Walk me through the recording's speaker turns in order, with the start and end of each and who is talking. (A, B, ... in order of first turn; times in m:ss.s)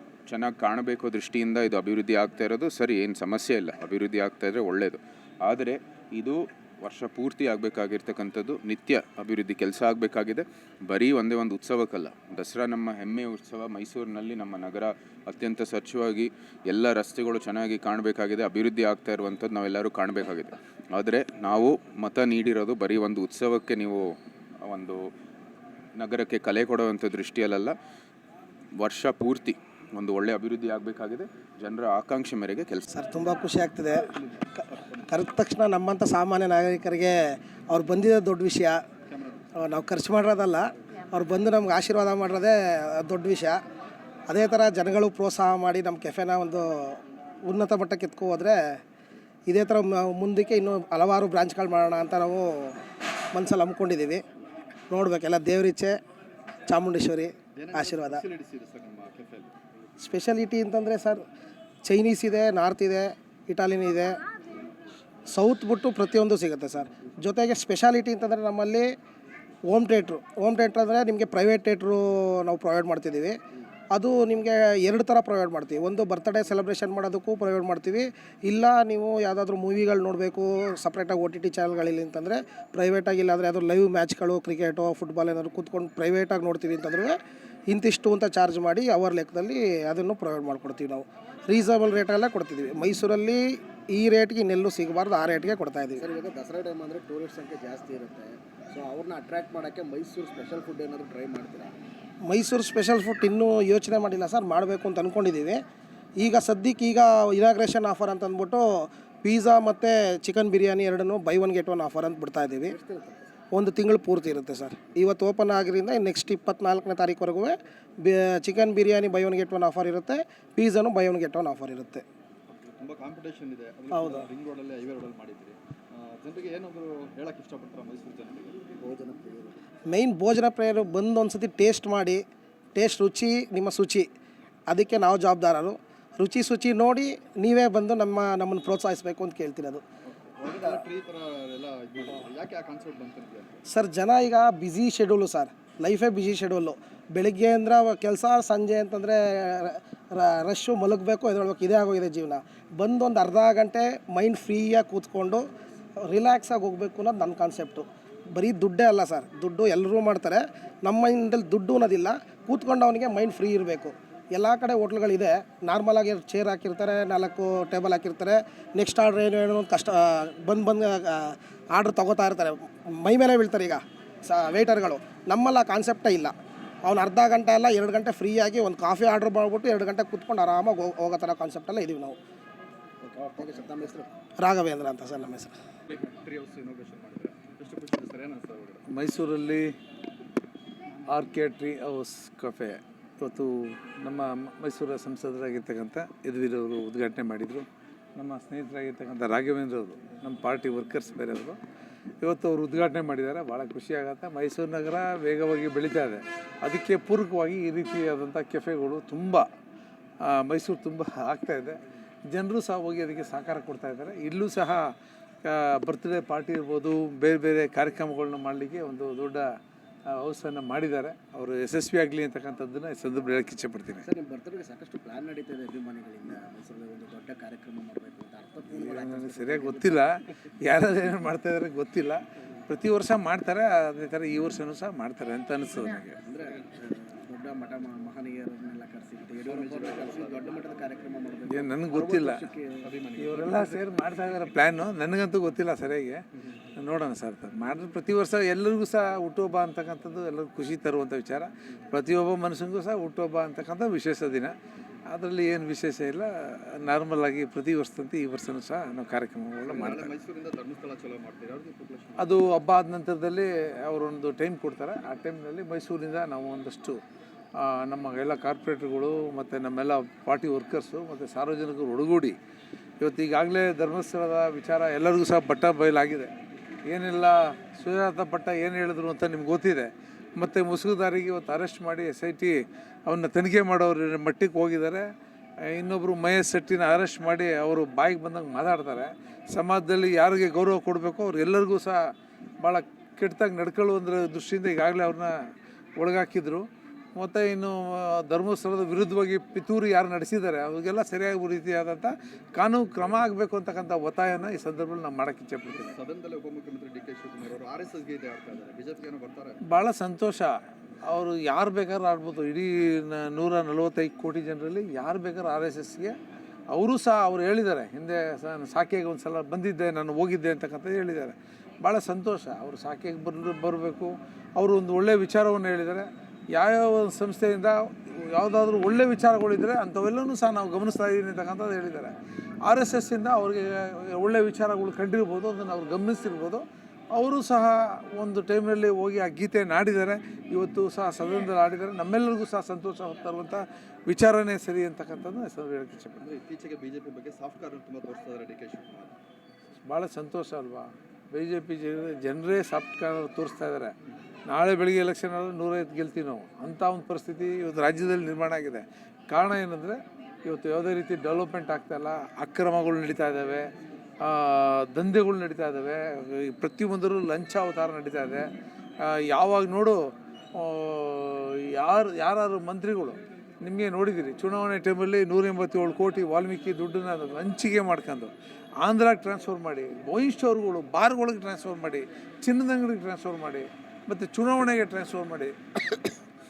0:00.3-0:24.1 A
0:24.6-0:25.0 A
0:26.0-0:27.7 A
0:28.8-0:32.9 A
0:32.9-0:38.8 B
0:34.0-0:35.1 C
0:39.1-0:39.5 C
0:39.6-0:43.6 B
0:44.3-0:48.6 B
0:49.5-0:52.8 B
0:53.3-0:54.2 B
0:54.9-0:56.0 B
0:56.7-0:58.2 B
0:57.6-0:59.5 C
1:00.0-1:01.2 B
1:01.8-1:04.2 B
1:05.3-1:08.9 B
1:09.7-1:13.4 B
1:13.9-1:27.2 B
1:27.7-1:36.0 B
1:36.0-1:41.8 D
1:42.3-1:45.6 B
1:46.2-1:52.8 B
1:52.7-1:53.3 D
1:53.5-2:02.0 B
2:02.5-2:08.7 C
2:03.9-2:04.2 B
2:08.8-2:09.6 D
2:09.9-2:12.2 B
2:12.7-2:14.1 B
2:14.7-2:19.8 B
2:20.0-2:23.6 C
2:23.7-2:35.4 B
2:36.0-2:56.3 B
2:56.8-3:02.2 B
3:03.0-3:04.1 D
3:04.4-3:05.5 B
3:05.9-3:08.8 C
3:08.8-3:09.7 E
3:11.0-3:21.6 E
3:22.2-3:29.4 E
3:30.2-3:31.8 E
3:32.3-3:34.8 E
3:35.4-3:39.4 E
3:40.1-3:44.0 E
3:44.0-3:50.0 D
3:48.7-3:56.2 E
3:56.2-4:03.0 D
3:59.4-4:00.9 C
4:01.5-4:02.5 E
4:02.8-4:04.6 C
4:03.2-4:06.2 E
4:06.8-4:14.5 E
4:15.1-4:20.1 E
4:19.6-4:22.4 C
4:22.2-4:27.0 E
4:27.6-4:32.3 E
4:33.0-4:36.3 E
4:36.8-4:45.0 E
4:45.6-4:52.0 E
4:52.6-4:55.3 E
4:56.0-5:05.9 E
5:05.7-5:09.6 C
5:09.6-5:10.5 E
5:11.0-5:16.2 E
5:16.7-5:32.1 E
5:32.6-5:46.3 E
5:46.2-5:49.2 C
5:49.8-5:53.9 E
5:54.5-6:03.7 E
6:04.2-6:08.4 E
6:09.0-6:26.1 E